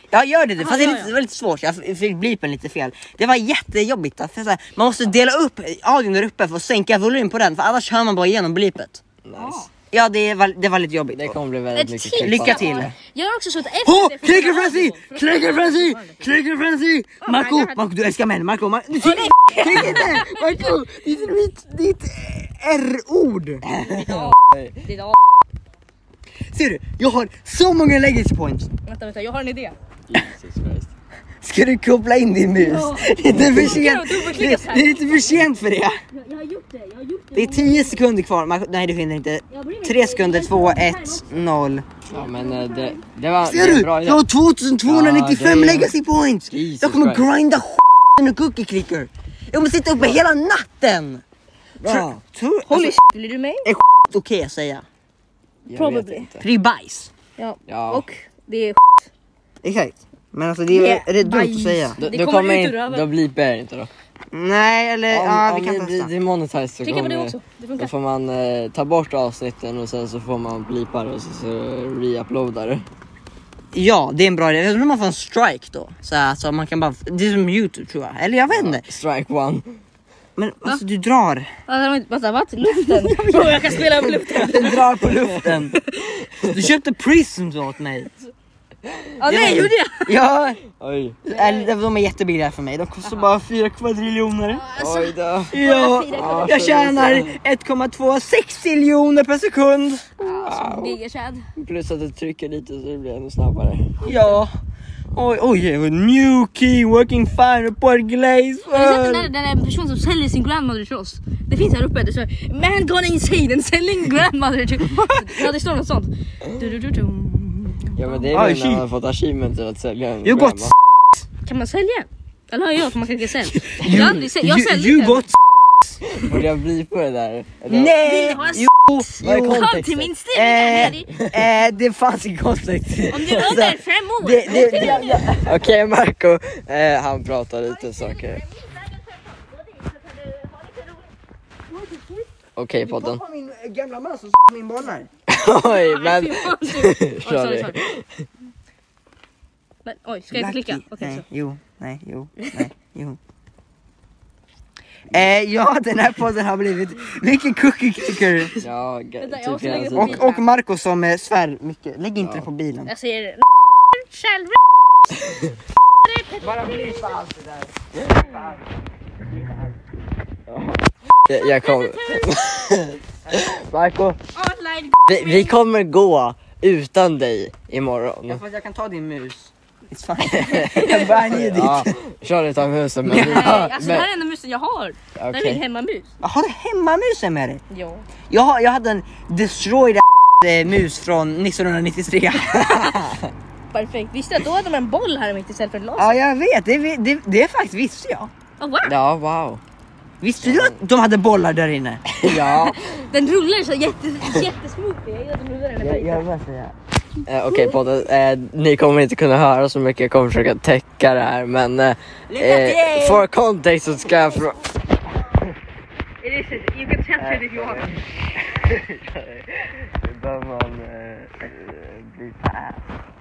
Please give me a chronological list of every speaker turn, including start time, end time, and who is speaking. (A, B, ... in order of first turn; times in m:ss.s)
0:00.1-0:09.0 A
0:00.6-0:01.1 B
0:09.2-0:09.6 C
0:09.4-0:09.7 B
0:09.9-0:11.4 A
0:11.1-0:12.9 C
0:11.7-0:16.3 B
0:12.2-0:12.9 A
0:13.8-0:23.6 A
0:17.2-0:17.8 B
0:19.0-0:20.8 B
0:23.8-0:25.2 B
0:23.8-0:24.7 C
0:26.5-0:28.7 A
0:28.9-0:29.7 B
0:30.1-0:30.9 C
0:31.4-0:36.0 A
0:32.6-0:35.4 B
0:33.4-0:33.8 C
0:36.1-0:38.0 B
0:37.3-0:41.8 A
0:39.5-0:41.3 B
0:42.1-0:44.2 C
0:42.1-0:43.0 B
0:43.4-0:51.2 A
0:44.8-0:45.9 C
0:46.5-0:47.2 C
0:51.8-0:52.2 C
0:51.8-0:53.0 A
0:52.6-0:53.6 B
0:53.6-0:54.8 A
0:55.7-0:56.4 C
0:55.7-0:56.3 B
0:56.4-0:57.1 A
0:57.4-0:59.1 B
0:57.7-0:58.0 C
0:59.6-1:02.0 A
1:00.7-1:03.0 B
1:02.0-1:03.9 C
1:04.3-1:06.1 A
1:05.1-1:12.8 C
1:06.8-1:07.9 B
1:13.7-1:18.8 A
1:18.5-1:19.8 C
1:20.4-1:21.5 A
1:21.7-1:24.9 B
1:22.6-1:23.8 A
1:24.3-1:25.8 A
1:25.0-1:25.5 C
1:25.7-1:26.0 B
1:26.2-1:26.4 C
1:26.5-1:28.1 A
1:28.9-1:29.6 C
1:29.2-1:30.2 B
1:29.2-1:30.6 A
1:30.8-1:31.2 C
1:31.2-1:34.6 A
1:31.3-1:31.7 B
1:33.0-1:33.3 B
1:34.5-1:37.0 B
1:34.8-1:37.3 C
1:35.5-1:40.2 A
1:40.2-1:41.4 B
1:40.2-1:41.0 C
1:41.6-1:43.9 C
1:44.0-1:44.5 A
1:45.1-1:49.3 A
1:48.7-1:58.2 B
1:55.0-1:55.4 A
1:58.0-2:00.7 C
1:58.3-1:58.8 A
2:00.2-2:00.7 A
2:01.4-2:05.2 B
2:03.7-2:06.2 A
2:06.2-2:08.0 C
2:07.7-2:09.6 A
2:08.0-2:11.1 B
2:09.2-2:10.1 C
2:10.3-2:15.6 A
2:13.1-2:15.4 B
2:13.2-2:13.6 C
2:14.5-2:18.4 C
2:17.7-2:21.1 B
2:22.6-2:23.2 C
2:22.8-2:25.1 A
2:25.3-2:28.2 C
2:25.6-2:27.8 B
2:29.8-2:31.2 B
2:30.3-2:33.2 A
2:32.4-2:32.7 B
2:35.1-2:38.6 A
2:38.6-2:40.3 C
2:39.2-2:40.5 B
2:39.9-2:42.9 A
2:42.8-2:44.6 B
2:46.0-2:47.2 B
2:46.4-2:48.5 A
2:48.0-2:48.3 C
2:51.3-2:54.2 C
2:51.3-2:52.7 B
2:54.3-2:55.6 B
2:55.1-2:58.4 C
2:58.3-3:01.9 A
3:00.3-3:00.7 C
3:00.4-3:01.6 B
3:01.4-3:04.1 C
3:03.0-3:03.8 A
3:03.1-3:06.1 B
3:05.2-3:05.6 C
3:06.2-3:07.6 A
3:07.7-3:08.0 B
3:08.3-3:13.1 A
3:13.7-3:16.2 B
3:16.0-3:18.3 A
3:18.6-3:18.9 B
3:18.8-3:19.6 C
3:20.2-3:22.0 A
3:20.4-3:20.7 C
3:22.1-3:22.8 C
3:22.2-3:26.2 B
3:25.8-3:26.7 C
3:27.3-3:34.6 C
3:27.5-3:27.8 B
3:32.3-3:33.2 A
3:36.2-3:38.0 B
3:37.2-3:42.8 C